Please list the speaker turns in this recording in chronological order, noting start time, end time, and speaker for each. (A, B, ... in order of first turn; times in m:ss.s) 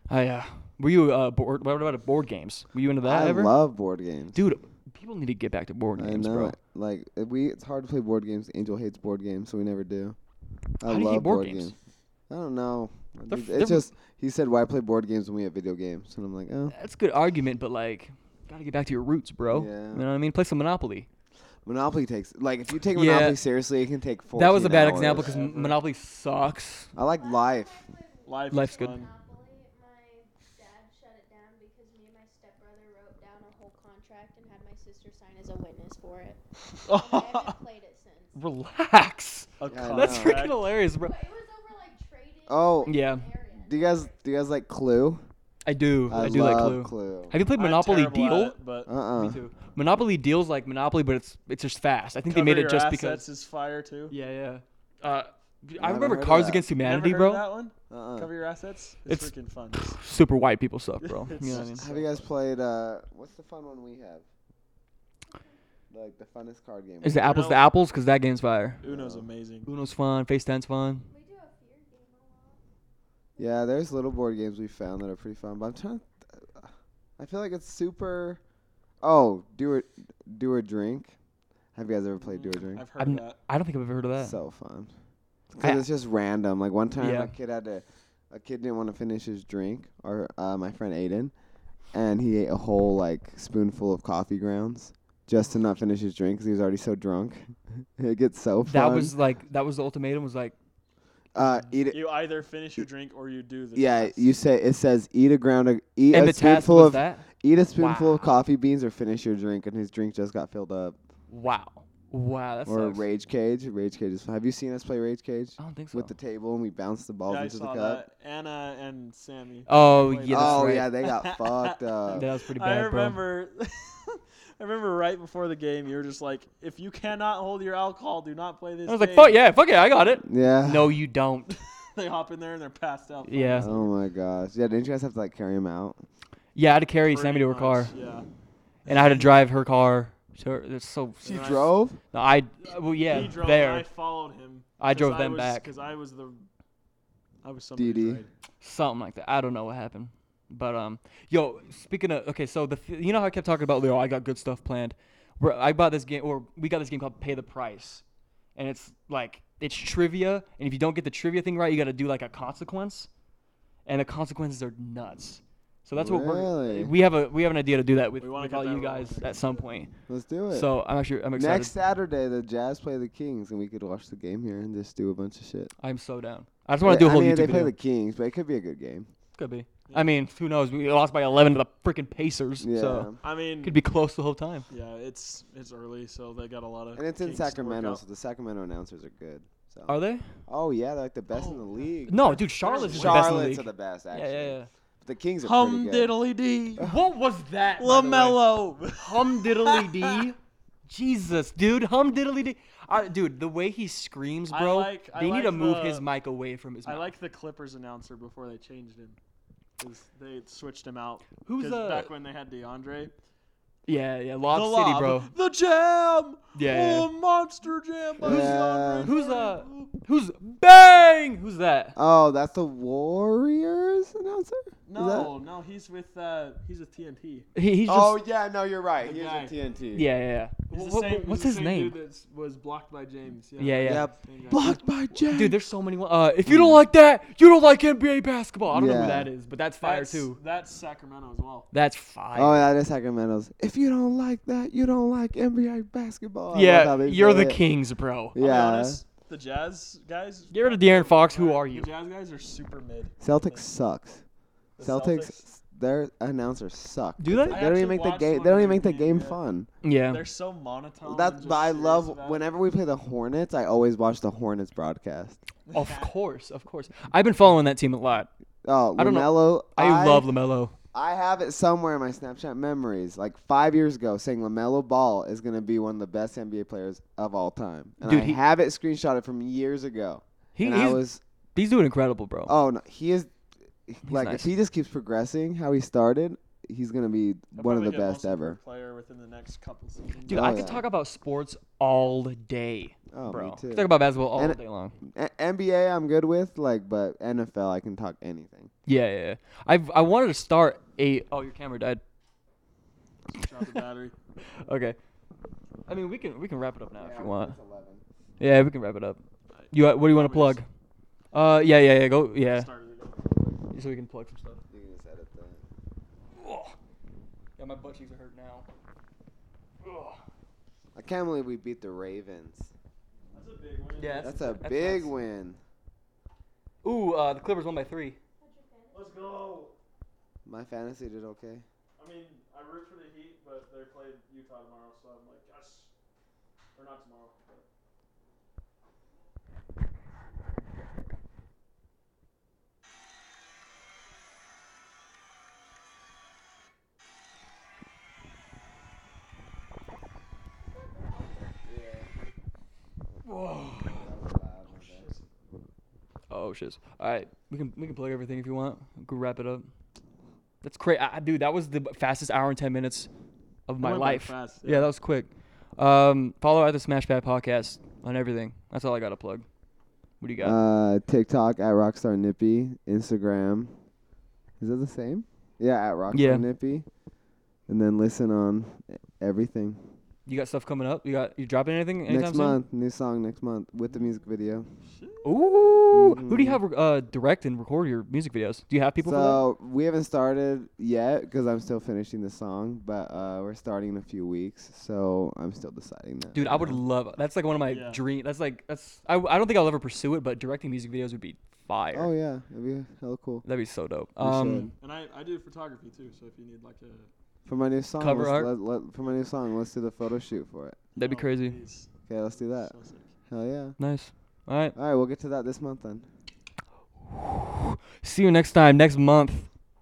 0:00.1-0:03.5 A
0:03.0-0:04.4 B
0:04.3-0:06.6 A
0:06.0-0:10.2 B
0:10.8-0:11.7 B
0:10.8-0:11.7 A
0:12.3-0:16.7 B
0:13.3-0:13.9 A
0:16.7-0:21.1 A
0:19.5-0:20.0 B
0:21.6-0:25.4 B
0:22.9-0:23.4 A
0:24.3-0:26.9 A
0:24.9-0:25.8 C
0:27.0-0:27.8 B
0:27.2-0:38.4 D
0:28.3-0:29.1 C
0:28.5-0:29.1 A
0:36.8-0:37.6 C
0:38.4-0:41.2 A
0:39.6-0:40.6 C
0:39.7-0:40.5 B
0:41.0-0:44.2 D
0:42.5-0:42.9 B
0:42.9-0:43.3 A
0:43.5-0:45.2 B
0:45.7-0:48.6 A
0:46.1-0:47.3 B
0:47.6-0:48.9 C
0:48.9-0:49.4 B
0:49.1-0:53.2 A
0:52.3-0:54.1 C
0:54.1-0:57.5 A
0:55.8-0:56.7 B
0:56.8-1:00.0 C
0:57.9-0:58.3 B
0:59.1-1:01.9 A
1:01.0-1:02.3 C
1:01.5-1:04.2 B
1:05.9-1:07.4 B
1:07.0-1:08.8 A
1:07.2-1:07.7 C
1:08.8-1:09.7 C
1:08.8-1:09.3 B
1:09.7-1:11.1 A
1:11.1-1:12.6 D
1:13.4-1:13.8 D
1:13.4-1:18.4 B
1:19.0-1:21.1 B
1:21.8-1:22.8 B
1:22.2-1:23.4 C
1:23.0-1:24.4 A
1:24.2-1:24.9 B
1:25.5-1:31.3 B
1:27.0-1:27.3 A
1:31.9-1:39.2 B
1:38.6-1:40.6 A
1:41.4-1:42.0 B
1:41.9-1:44.3 C
1:43.8-1:51.0 B
1:46.1-1:48.3 A
1:51.3-1:53.1 A
1:52.7-1:58.0 B
1:55.6-1:56.2 A
1:57.3-2:09.4 C
1:59.7-2:00.9 A
2:00.3-2:02.3 B
2:02.1-2:03.2 A
2:08.9-2:11.6 A
2:10.2-2:11.0 B
2:11.5-2:14.0 C
2:13.3-2:13.7 A
2:13.6-2:16.0 B
2:16.6-2:17.9 A
2:17.1-2:18.3 C
2:18.8-2:19.3 C
2:18.9-2:23.9 A
2:21.2-2:22.0 B
2:21.2-2:21.7 C
2:22.7-2:26.5 C
2:24.8-2:25.7 A
2:27.4-2:28.3 C
2:27.8-2:28.2 B
2:28.6-2:38.0 A
2:38.6-2:43.1 A
2:43.9-2:49.9 A
2:46.0-2:46.9 B
2:48.2-2:49.6 C
2:50.1-2:50.7 B
2:50.5-2:51.8 A
2:51.4-2:55.7 B
2:55.8-2:57.7 A
2:56.8-2:59.1 B
2:59.4-3:04.7 A
3:02.6-3:03.2 B
3:03.2-3:03.8 C
3:04.7-3:08.0 C
3:07.0-3:10.0 B
3:09.9-3:10.3 A
3:10.5-3:16.1 B
3:11.3-3:13.4 C
3:12.1-3:14.7 A
3:15.4-3:16.9 C
3:16.8-3:18.4 A
3:17.8-3:20.2 C
3:19.0-3:20.4 A
3:20.9-3:27.1 A
3:24.5-3:26.1 C
3:26.8-3:29.2 C
3:29.8-3:33.1 C
3:31.4-3:32.1 A
3:33.9-3:35.3 A
3:34.5-3:39.9 C
3:36.6-3:37.1 A
3:38.2-3:39.2 B
3:38.2-3:42.0 A
3:42.0-3:45.3 B
3:44.9-3:47.5 C
3:47.6-3:48.2 A
3:47.9-3:50.1 B
3:49.0-3:49.6 C
3:49.9-3:52.0 A
3:50.7-3:54.7 C
3:53.6-4:00.4 A
3:53.8-3:55.6 B
3:56.5-3:56.8 B
3:58.7-3:59.3 B
3:59.8-4:01.7 C
4:01.7-4:02.7 A
4:02.4-4:07.6 B
4:06.5-4:08.4 A
4:08.4-4:09.0 B
4:08.4-4:13.6 C
4:10.5-4:11.9 A
4:13.2-4:14.2 B
4:14.8-4:15.4 C
4:14.8-4:19.7 B
4:17.2-4:17.6 A
4:17.5-4:19.4 C
4:19.8-4:20.2 A
4:20.1-4:22.4 C
4:21.0-4:25.4 B
4:25.7-4:26.1 C
4:25.7-4:28.3 A
4:28.6-4:30.3 B
4:29.0-4:30.7 A
4:30.9-4:41.2 B
4:38.0-4:38.4 A
4:40.6-4:41.0 A
4:41.6-4:42.5 A
4:42.5-4:43.3 B
4:43.9-4:48.6 B
4:44.1-4:44.5 A
4:47.6-4:50.7 C
4:50.3-4:55.0 A
4:50.3-4:50.8 B
4:53.1-4:58.7 B
4:58.9-5:02.0 A
5:03.3-5:04.2 C
5:04.6-5:05.0 A
5:05.9-5:07.6 A
5:07.0-5:08.0 B
5:08.4-5:10.7 A
5:09.5-5:10.6 C
5:11.3-5:12.7 A
5:12.5-5:13.6 C
5:13.7-5:14.6 A
5:14.7-5:15.6 B
5:16.4-5:16.8 A
5:17.6-5:18.7 A
5:19.8-5:20.2 A
5:21.0-5:22.7 B
5:23.3-5:24.6 C
5:24.0-5:25.1 A
5:24.2-5:25.6 B
5:26.8-5:28.2 A
5:28.4-5:29.3 D
5:28.9-5:29.7 C
5:30.5-5:31.6 B
5:32.0-5:35.9 C
5:36.8-5:37.7 C
5:51.6-5:52.1 B
5:53.2-5:54.1 A
5:53.8-5:55.1 B
5:54.8-5:55.2 C
5:56.3-5:59.7 A
6:00.6-6:03.1 A
6:03.7-6:09.5 A
6:03.8-6:04.9 C
6:10.2-6:10.6 A
6:10.4-6:13.7 B
6:14.6-6:16.9 B
6:16.1-6:16.5 A
6:17.7-6:19.8 B
6:20.3-6:22.6 A
6:22.1-6:24.7 B
6:24.8-6:25.3 C
6:25.2-6:29.4 A
6:25.9-6:26.6 B
6:29.0-6:36.8 B
6:36.4-6:42.1 A
6:37.7-6:38.0 C
6:41.9-6:43.4 B
6:43.4-6:44.7 A
6:44.2-6:44.7 B
6:44.8-6:47.1 C
6:47.5-6:50.8 B
6:48.0-6:48.5 A
6:51.0-6:51.6 A
6:51.0-6:53.1 C
6:52.1-6:52.7 B
6:53.3-6:53.8 B
6:53.8-6:54.8 A
6:54.8-6:56.0 B
6:57.1-6:59.5 A